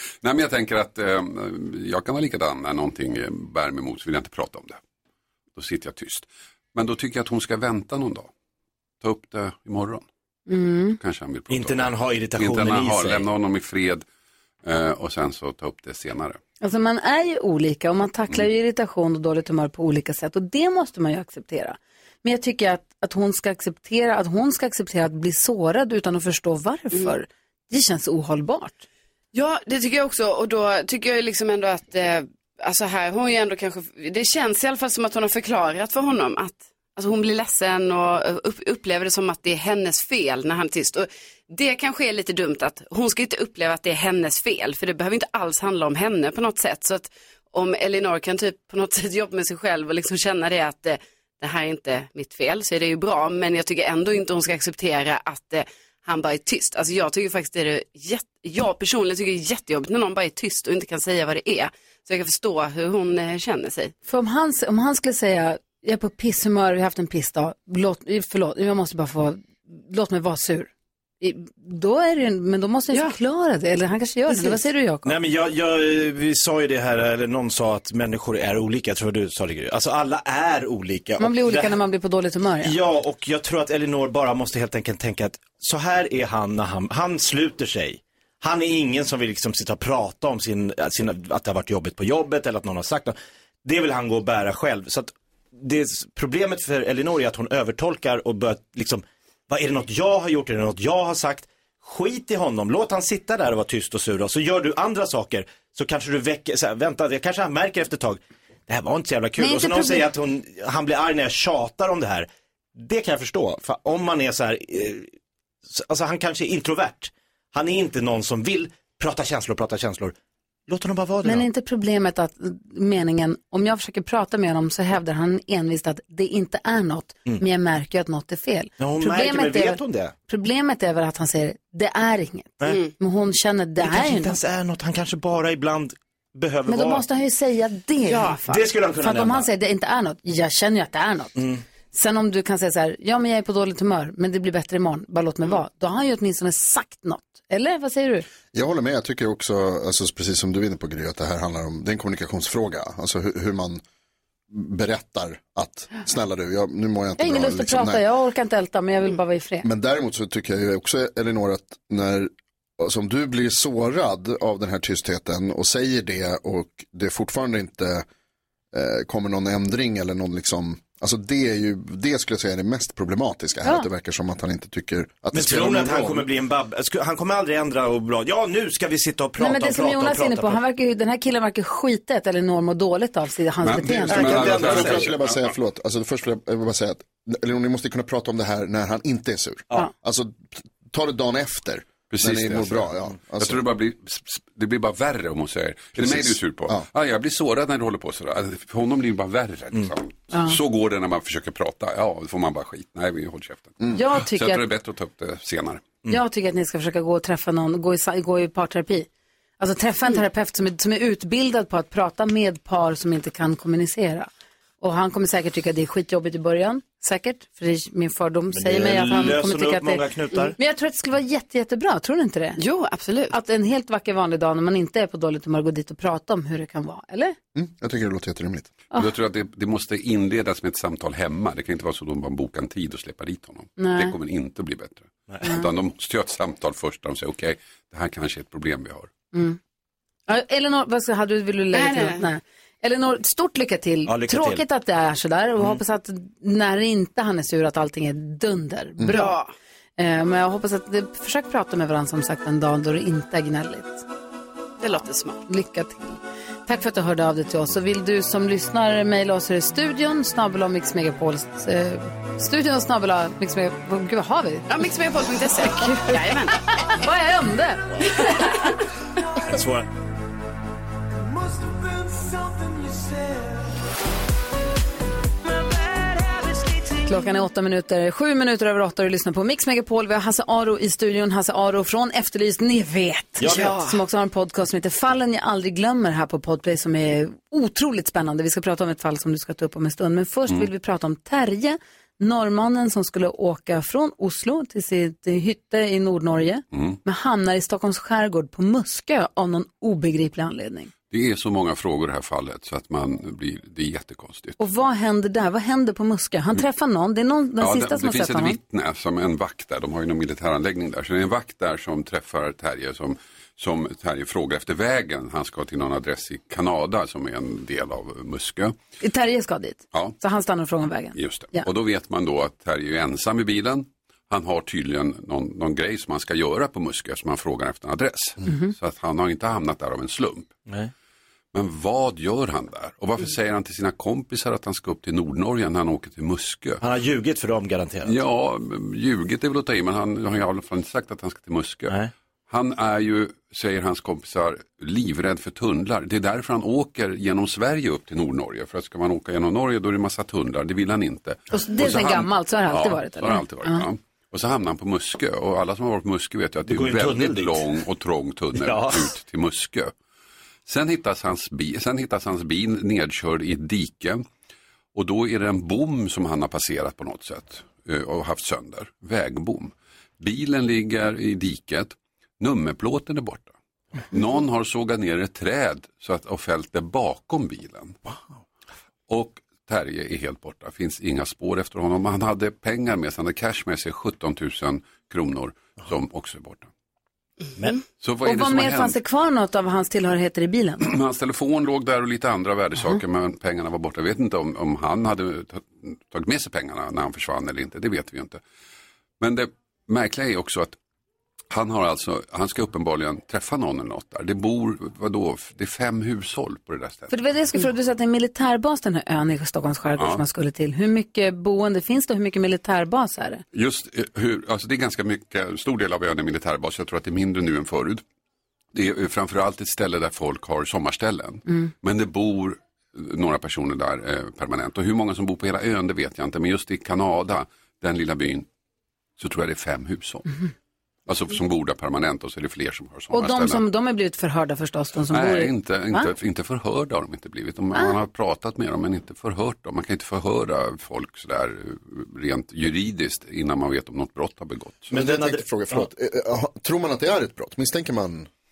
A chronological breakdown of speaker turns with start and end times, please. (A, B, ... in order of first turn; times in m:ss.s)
0:00.2-0:04.8 A
0:05.5-0:08.3 A
0:09.0-0:10.0 A
0:10.5-0:11.0 B
0:11.0-0:14.0 A
0:11.5-0:13.2 C
0:14.6-0:16.4 A
0:16.6-0:28.8 B
0:29.3-1:03.9 D
1:04.0-1:15.1 B
1:15.0-1:21.8 C
1:21.2-1:22.7 B
1:22.6-1:55.1 C
1:49.4-1:50.1 B
1:55.7-2:00.1 C
2:00.7-2:01.4 C
2:01.2-2:14.3 B
2:08.8-2:10.1 C
2:12.6-2:12.9 D
2:13.8-2:17.0 C
2:16.7-2:21.4 B
2:18.1-2:18.4 D
2:18.4-2:19.5 C
2:21.4-2:21.6 C
2:21.9-2:28.2 B
2:28.5-2:33.8 E
2:34.5-2:38.0 E
2:37.2-2:39.7 B
2:39.6-2:48.0 E
2:48.7-2:56.3 E
2:55.3-3:00.6 C
2:59.4-3:04.4 B
3:03.6-3:05.5 A
3:04.0-3:05.1 C
3:04.1-3:13.6 E
3:12.1-3:26.0 A
3:16.0-3:16.8 E
3:23.9-3:24.6 B
3:26.1-3:29.1 B
3:29.6-3:34.3 B
3:34.8-3:40.0 B
3:38.5-3:40.6 C
3:40.6-3:42.6 B
3:42.6-3:43.3 D
3:43.3-3:47.4 B
3:47.5-3:48.7 E
3:48.9-3:59.1 A
3:53.8-3:54.1 B
4:00.3-4:09.4 B
4:01.7-4:02.2 D
4:04.0-4:04.6 C
4:09.1-4:09.5 D
4:10.0-4:14.0 B
4:14.8-4:15.4 D
4:15.5-4:24.7 B
4:24.7-4:26.6 D
4:26.7-4:28.5 B
4:28.2-4:28.4 D
4:29.4-4:29.9 C
4:37.0-5:00.9 B
4:43.4-4:43.9 C
4:56.7-4:57.0 A
5:01.1-5:04.6 A
5:04.6-5:08.6 B
5:07.6-5:18.7 A
5:19.0-5:21.6 B
5:21.1-5:30.5 A
5:28.4-5:28.7 B
5:31.5-5:36.8 A
5:36.8-5:38.1 C
5:38.0-5:41.9 A
5:42.5-5:59.9 A
5:51.5-5:53.8 B
5:56.6-5:57.7 C
5:58.6-5:59.1 C
6:00.6-6:04.2 A
6:04.9-6:13.5 A
6:14.1-6:18.0 A
6:19.1-6:26.7 A
6:28.0-6:29.0 A
6:28.2-6:30.8 B
6:30.8-6:38.4 A
6:39.2-6:40.8 A
6:41.5-6:47.1 A
6:47.1-6:53.4 B
6:50.0-6:50.2 A
6:53.5-6:58.0 A
6:58.7-7:08.5 A
7:09.2-7:10.3 A
7:11.1-7:13.6 A
7:13.1-7:16.1 B
7:15.1-7:24.9 A
7:24.9-7:28.3 E
7:24.9-7:25.8 C